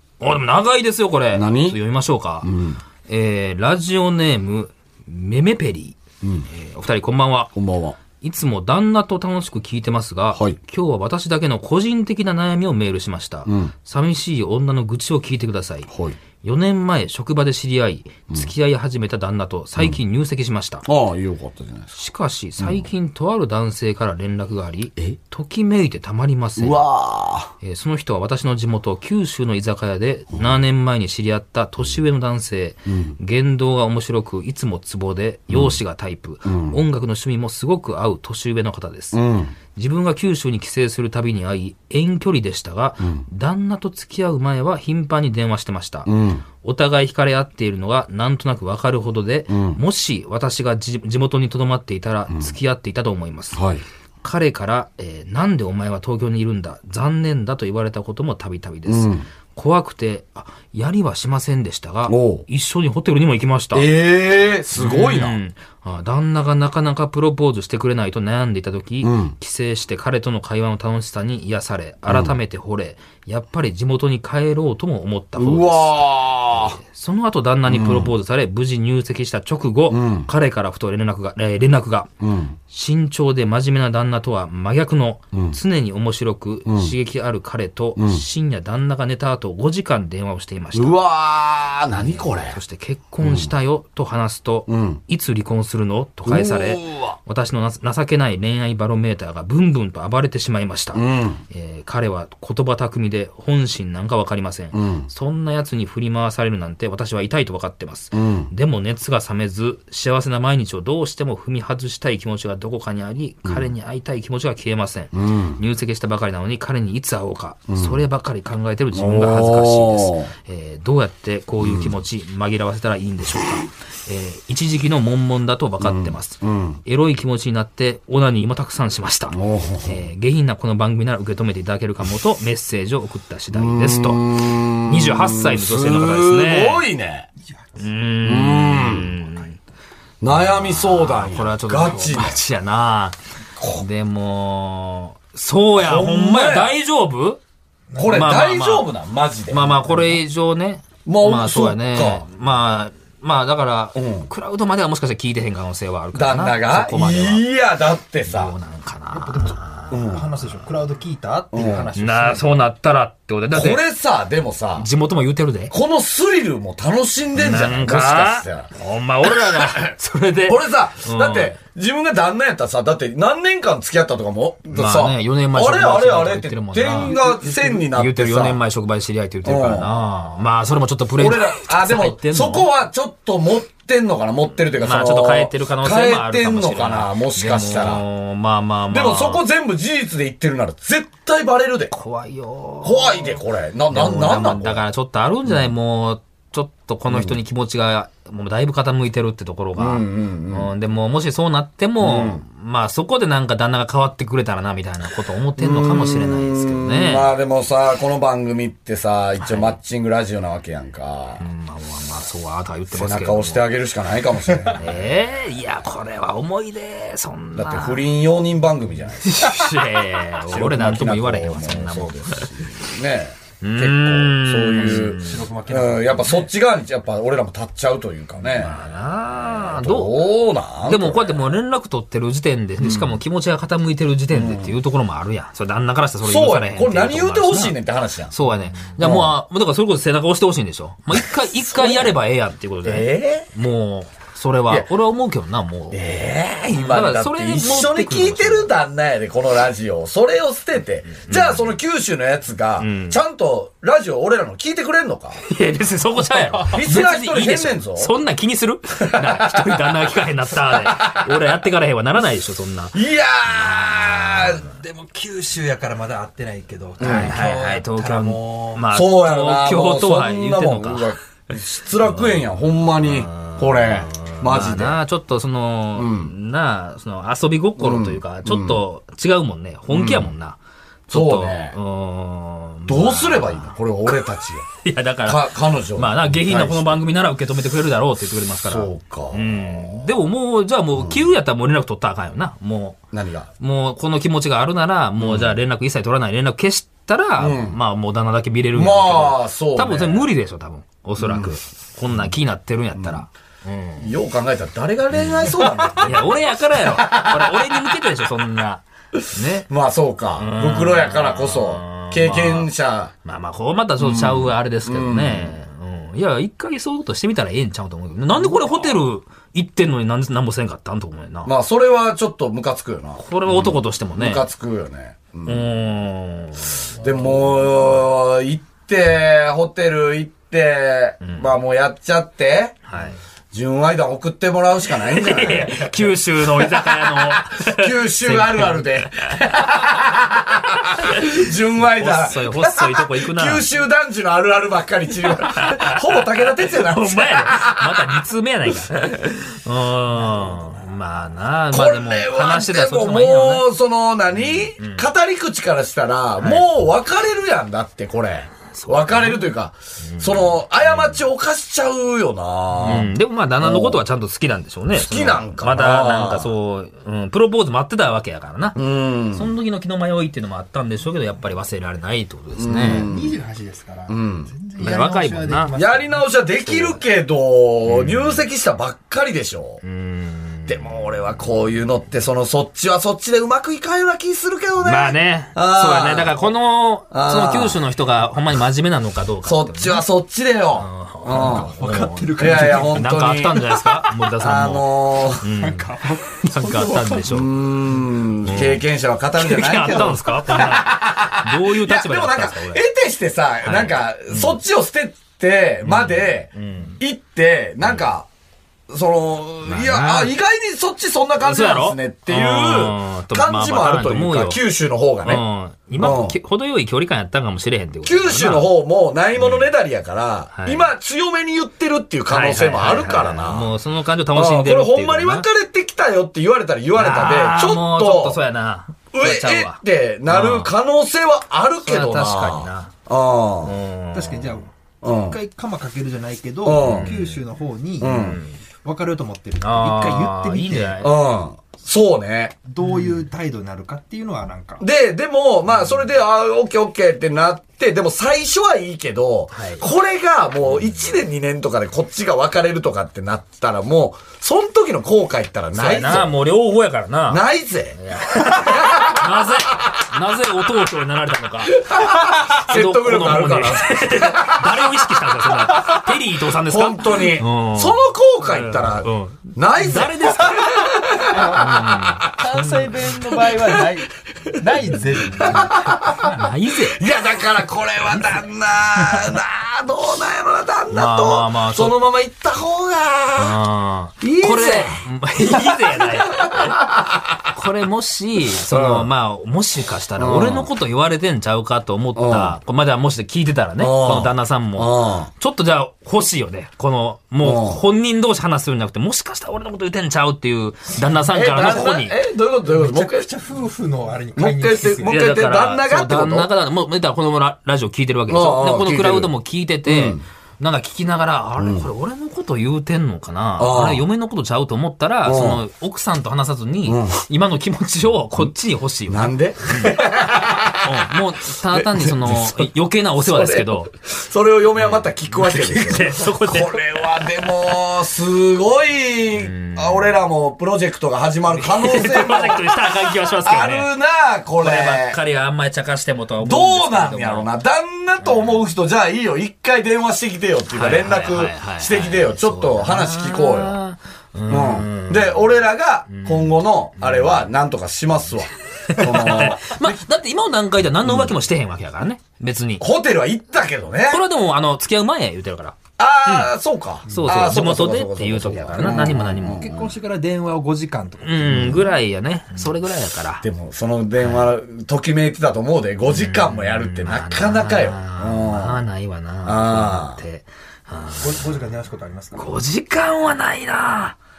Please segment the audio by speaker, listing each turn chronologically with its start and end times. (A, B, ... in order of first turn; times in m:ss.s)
0:00.2-0:07.6 A
0:01.3-0:01.8 B
0:02.4-0:02.8 B
0:06.2-0:06.5 B
0:07.6-0:08.0 B
0:08.2-0:20.8 A
0:13.5-0:13.7 B
0:15.9-0:16.2 B
0:20.8-0:21.9 B
0:22.0-0:26.9 A
0:22.6-0:22.9 B
0:26.6-0:27.5 B
0:27.6-0:39.2 A
0:32.9-0:33.2 B
0:35.5-0:35.8 B
0:36.5-0:36.8 B
0:39.1-0:39.6 B
0:39.8-0:46.1 A
0:46.1-0:46.4 B
0:46.6-0:53.6 A
0:49.5-0:49.8 B
0:52.3-0:52.6 B
0:53.5-0:53.8 B
0:54.2-1:03.9 A
0:58.9-0:59.3 B
1:02.1-1:02.5 B
1:03.7-1:05.4 B
1:04.8-1:22.1 A
1:09.0-1:09.4 B
1:12.1-1:12.4 B
1:15.4-1:16.8 B
1:17.7-1:18.2 B
1:19.9-1:20.3 B
1:22.2-1:22.6 B
1:22.7-1:31.0 A
1:26.7-1:27.0 B
1:28.0-1:28.2 B
1:30.7-1:32.6 B
1:32.0-2:16.8 A
1:33.2-1:33.5 B
1:34.7-1:35.0 B
1:36.2-1:37.2 B
1:40.9-1:41.4 B
1:44.7-1:45.1 B
1:48.1-1:48.5 B
1:55.1-1:55.6 B
1:57.7-1:58.0 B
1:58.9-2:00.3 B
2:01.6-2:02.0 B
2:05.8-2:06.8 B
2:09.3-2:10.0 B
2:13.5-2:17.3 B
2:17.8-2:19.6 A
2:18.2-2:19.2 B
2:20.2-2:22.4 B
2:20.3-2:23.2 A
2:23.6-2:23.9 B
2:23.8-2:27.4 A
2:25.8-2:26.8 B
2:28.0-2:30.2 B
2:28.0-2:29.0 A
2:29.5-2:37.5 A
2:31.1-2:32.3 B
2:34.0-2:34.3 B
2:36.1-2:38.6 B
2:38.3-2:40.7 A
2:39.1-2:42.6 C
2:39.9-2:40.3 B
2:41.5-2:41.9 B
2:42.0-2:43.8 A
2:43.5-2:44.9 B
2:44.8-2:45.8 A
2:45.7-2:48.7 B
2:47.4-2:51.6 A
2:49.3-2:49.9 B
2:50.5-2:58.6 B
2:54.7-2:57.2 A
2:57.8-3:02.7 A
2:59.4-3:00.0 B
3:01.2-3:08.0 B
3:04.8-3:09.4 A
3:08.9-3:12.0 B
3:11.9-3:27.3 A
3:12.8-3:14.8 B
3:17.1-3:17.4 B
3:19.8-3:20.7 B
3:22.0-3:22.4 B
3:25.6-3:31.4 B
3:29.4-3:29.8 A
3:31.4-3:33.7 A
3:32.9-3:34.9 B
3:34.7-3:38.0 A
3:37.5-3:39.8 B
3:39.2-3:42.9 A
3:40.5-3:48.8 B
3:43.6-3:45.4 A
3:45.0-3:46.4 C
3:48.4-3:50.3 A
3:49.4-3:51.5 B
3:50.8-3:57.8 A
3:52.8-3:53.2 B
3:54.3-3:54.8 B
3:56.2-3:58.4 B
3:58.3-4:06.0 A
3:59.0-3:59.4 B
4:01.1-4:02.2 B
4:02.8-4:03.5 B
4:05.9-4:15.4 B
4:06.7-4:08.7 A
4:11.1-4:11.8 A
4:12.8-4:13.2 A
4:15.4-4:24.6 A
4:16.6-4:18.1 B
4:19.0-4:20.1 B
4:20.7-4:21.5 B
4:22.9-4:24.7 B
4:24.7-4:28.8 C
4:27.0-4:27.4 B
4:27.0-4:31.5 A
4:28.9-4:35.0 B
4:32.0-4:40.6 A
4:36.0-4:36.3 B
4:37.8-4:38.8 B
4:39.9-4:40.4 B
4:41.1-4:41.8 B
4:41.1-4:44.3 A
4:42.9-4:44.7 B
4:44.8-4:53.0 A
4:45.2-4:47.0 B
4:48.6-4:50.1 B
4:51.0-4:51.3 B
4:53.1-4:53.5 B
4:53.6-5:04.1 A
4:55.2-4:55.6 B
4:57.4-4:57.8 B
4:58.8-5:00.3 B
5:01.2-5:01.6 B
5:03.0-5:03.2 B
5:04.0-5:08.0 B
5:05.1-5:09.7 A
5:09.2-5:13.1 B
5:10.4-5:12.7 A
5:13.2-5:21.5 A
5:14.0-5:15.6 B
5:18.4-5:18.9 B
5:21.4-5:25.7 B
5:23.2-5:24.5 A
5:25.5-5:27.0 A
5:27.0-5:32.8 B
5:31.2-5:31.6 A
5:32.9-5:33.2 A
5:33.5-5:35.9 B
5:35.1-5:40.0 A
5:36.6-5:48.2 B
5:41.0-5:43.7 A
5:45.2-5:46.0 A
5:46.8-5:53.7 A
5:51.7-6:04.0 B
5:54.3-5:55.1 A
5:56.4-5:56.7 A
5:58.7-6:01.2 A
6:02.8-6:13.1 A
6:04.9-6:06.5 B
6:08.8-6:09.6 B
6:12.6-6:13.4 B
6:13.1-6:16.3 C
6:14.1-6:14.5 B
6:14.8-6:15.8 A
6:15.8-6:19.8 B
6:16.6-6:17.0 A
6:17.9-6:18.5 A
6:19.8-6:21.4 A
6:20.7-6:26.5 B
6:24.8-6:30.0 A
6:27.1-6:27.8 B
6:29.4-6:31.8 B
6:30.8-6:37.5 A
6:31.7-6:33.8 C
6:32.4-6:33.9 B
6:34.4-6:35.5 B
6:35.6-6:37.3 C
6:37.3-6:48.3 B
6:38.4-6:42.8 A
6:43.6-6:44.6 A
6:45.8-6:47.0 A
6:47.8-6:48.1 A
6:48.9-6:55.4 B
6:49.6-6:50.4 A
6:51.4-6:54.6 A
6:55.2-6:58.7 A
6:56.0-6:56.4 B
6:58.0-7:03.7 B
6:59.4-6:59.7 A
7:00.5-7:00.9 A
7:02.3-7:05.5 A
7:04.3-7:08.4 B
7:06.9-7:10.7 A
7:09.1-7:13.8 B
7:11.8-7:12.9 A
7:13.6-7:14.6 A
7:14.1-7:18.1 C
7:15.0-7:15.4 B
7:16.6-7:17.2 B
7:16.8-7:17.4 A
7:18.0-7:18.4 B
7:18.0-7:18.6 A
7:18.8-7:21.0 C
7:19.6-7:21.2 A
7:21.0-7:22.6 B
7:22.7-7:24.8 C
7:22.8-7:23.2 A
7:24.8-7:36.3 B
7:29.5-7:29.8 A
7:30.7-7:31.2 A
7:35.7-7:53.0 A
7:37.3-7:39.8 B
7:41.8-7:44.7 B
7:46.6-7:52.3 B
7:52.4-7:54.0 C
7:53.5-7:53.8 B
7:54.6-7:55.9 C
7:55.4-8:03.6 B
7:56.2-7:57.0 A
8:00.9-8:02.0 A
8:03.4-8:06.9 A
8:04.2-8:07.4 B
8:07.5-8:22.2 A
8:08.5-8:09.1 B
8:10.2-8:10.7 B
8:12.2-8:12.6 B
8:13.8-8:15.3 B
8:17.4-8:17.8 B
8:21.3-8:23.3 B
8:22.7-8:25.1 C
8:24.4-8:26.5 B
8:25.0-8:43.9 A
8:28.3-8:29.3 B
8:29.8-8:30.2 B
8:31.6-8:31.9 B
8:33.6-8:34.1 B
8:35.2-8:35.6 B
8:36.8-8:37.2 B
8:39.1-8:42.7 B
8:43.2-8:55.2 B
8:44.8-8:46.8 A
8:49.4-8:50.2 A
8:51.5-8:53.9 A
8:54.6-8:57.5 A
8:56.4-9:03.8 B
8:58.2-8:58.7 A
9:00.7-9:07.5 A
9:04.5-9:10.0 B
9:08.9-9:12.9 A
9:11.0-9:11.4 B
9:12.8-9:14.2 B
9:14.1-9:16.5 A
9:16.0-9:19.9 B
9:17.1-9:19.7 A
9:18.8-9:21.8 C
9:21.2-9:23.5 A
9:21.5-9:21.8 B
9:23.4-9:28.8 B
9:24.2-9:24.5 A
9:26.1-9:31.5 A
9:29.4-9:30.2 B
9:31.2-9:32.6 C
9:32.3-9:34.2 A